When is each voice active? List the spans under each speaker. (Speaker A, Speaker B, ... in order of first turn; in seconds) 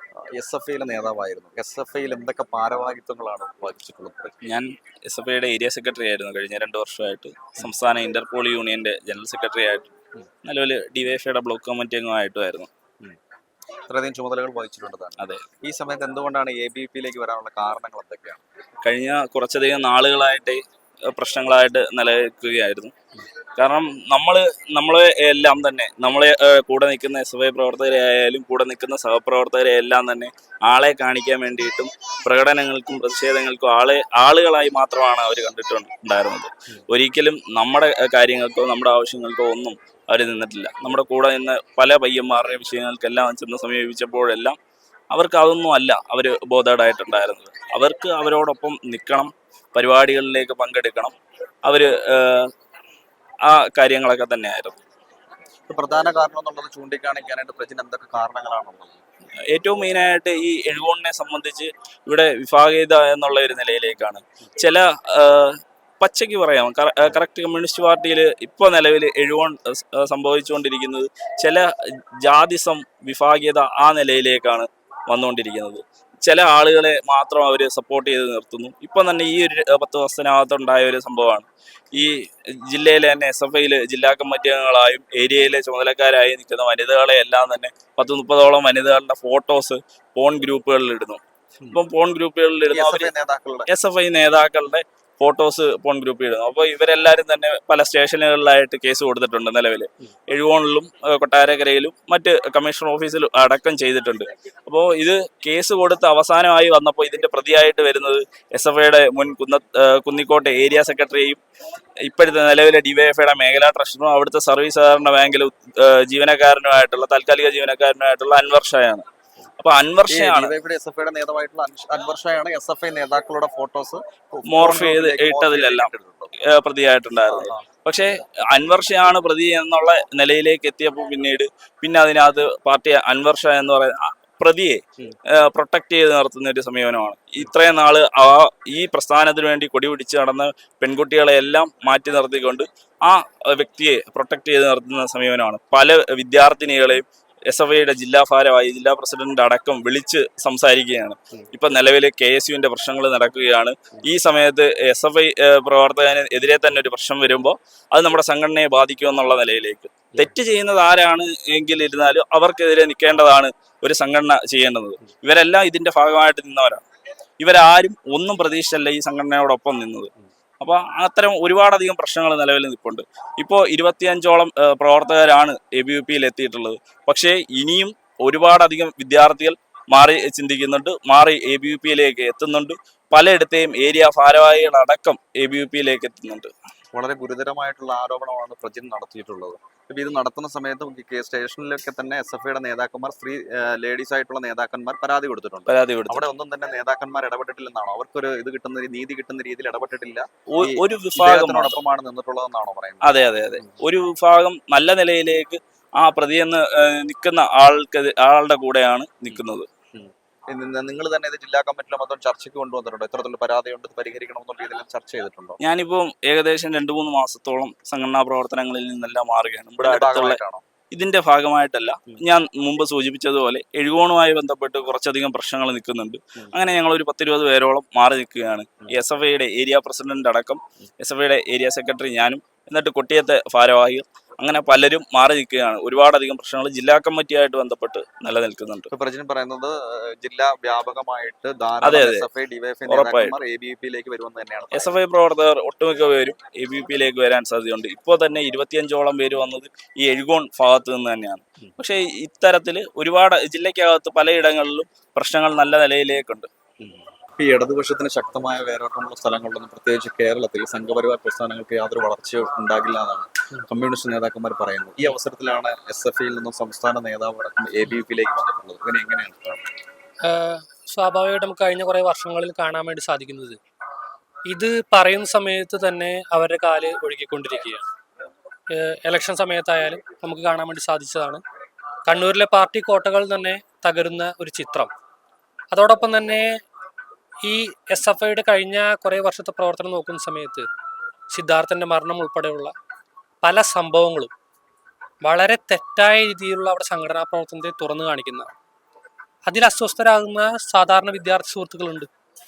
Speaker A: 0.3-4.3, 13.9-18.4, 55.7-59.0, 92.7-93.7, 120.1-126.3, 127.2-127.7, 186.9-203.1, 209.9-215.6, 219.8-220.6, 238.9-244.9, 256.8-269.6
Speaker B: 4.4-9.9, 10.4-12.7, 15.2-15.5, 18.8-22.9, 23.6-44.5, 45.1-52.5, 53.5-54.8, 59.5-71.7, 72.2-82.1, 82.7-91.2, 91.7-93.1, 93.7-111.4, 112.1-119.0, 119.6-120.5, 124.5-125.9, 126.5-134.8, 135.3-166.8, 167.4-186.5, 195.7-196.2, 200.5-201.8, 203.0-209.7, 215.6-220.4, 220.9-238.9, 241.8-242.2, 242.9-243.3, 244.7-256.5
Speaker C: 270.3-273.6, 274.5-277.9, 278.8-281.4, 282.1-284.9, 285.7-286.4, 287.4-290.7, 291.3-292.7, 293.4-294.3, 295.2-298.5, 299.4-302.1